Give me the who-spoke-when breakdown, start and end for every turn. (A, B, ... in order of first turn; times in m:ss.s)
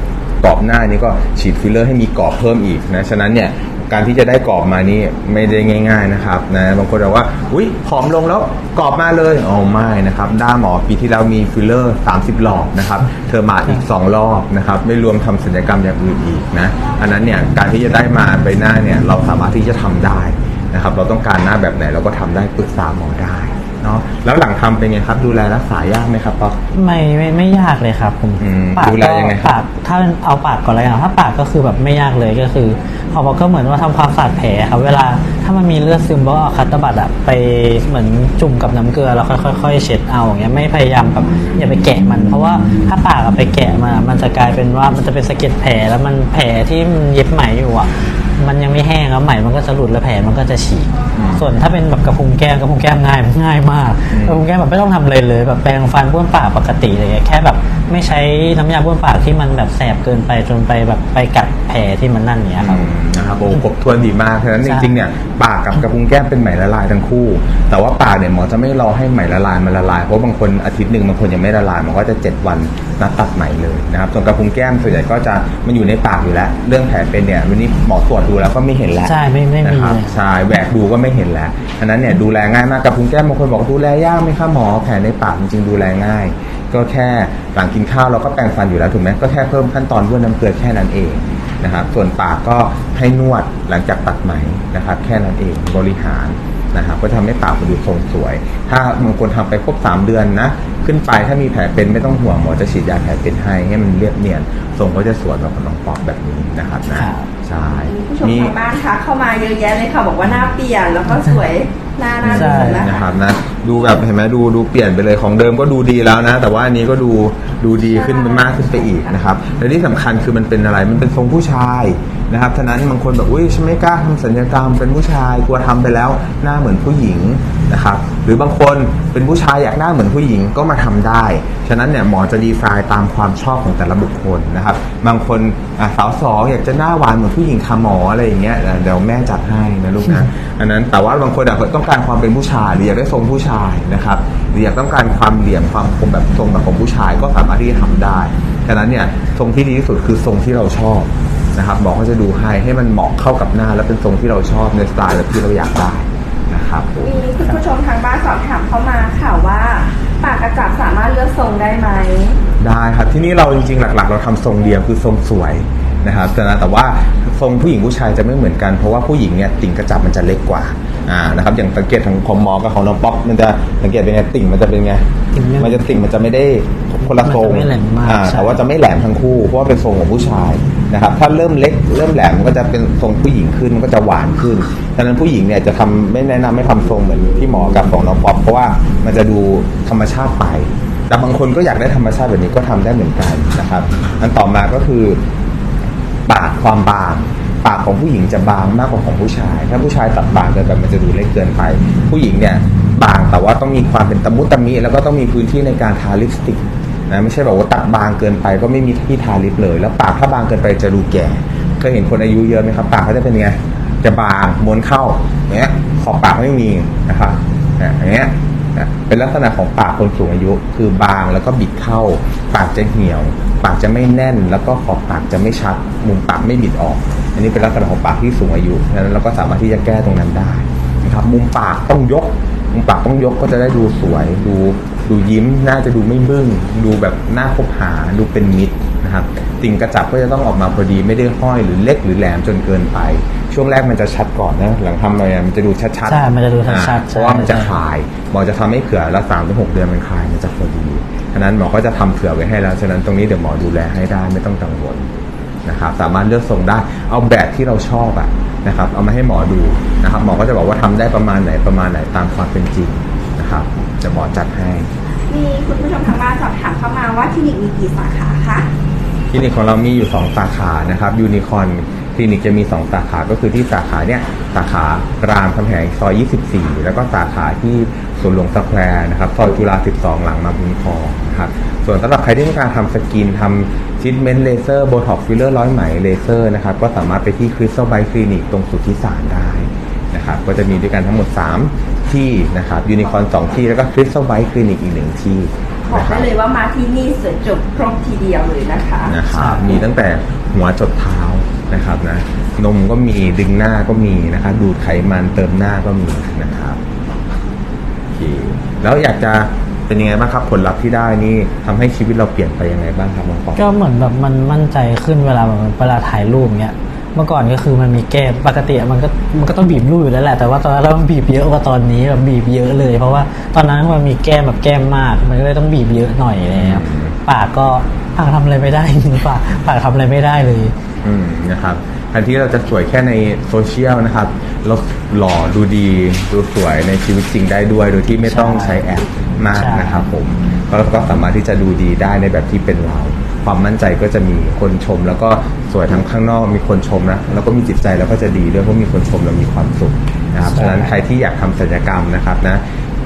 0:00.4-0:26.6 A
0:26.7-1:02.9 B
0:28.4-0:29.6 A
0:51.2-0:51.5 A
0:54.1-0:54.4 A
1:02.6-1:48.6 A
1:04.6-1:04.9 B
1:19.0-1:20.2 B
1:46.9-1:47.3 B
1:47.9-1:53.1 C
1:50.2-1:50.5 A
1:52.2-2:37.2 A
1:52.2-1:52.9 B
1:57.8-1:59.1 C
2:37.0-2:42.4 C
2:42.6-2:55.0 A
2:55.3-2:55.9 B
2:55.6-3:15.2 A
2:57.2-2:58.6 B
3:16.3-4:15.1 A
4:06.1-4:07.8 B
4:15.6-4:24.9 A
4:25.3-4:28.7 C
4:29.3-4:56.3 A
4:55.9-4:59.2 C
4:59.1-5:06.8 A
4:59.3-4:59.7 B
5:08.1-5:13.6 A
5:13.6-5:30.7 B
5:26.5-5:27.2 A
5:31.0-5:52.6 A
5:38.2-5:38.8 B
5:39.5-5:40.0 B
5:50.4-5:50.9 B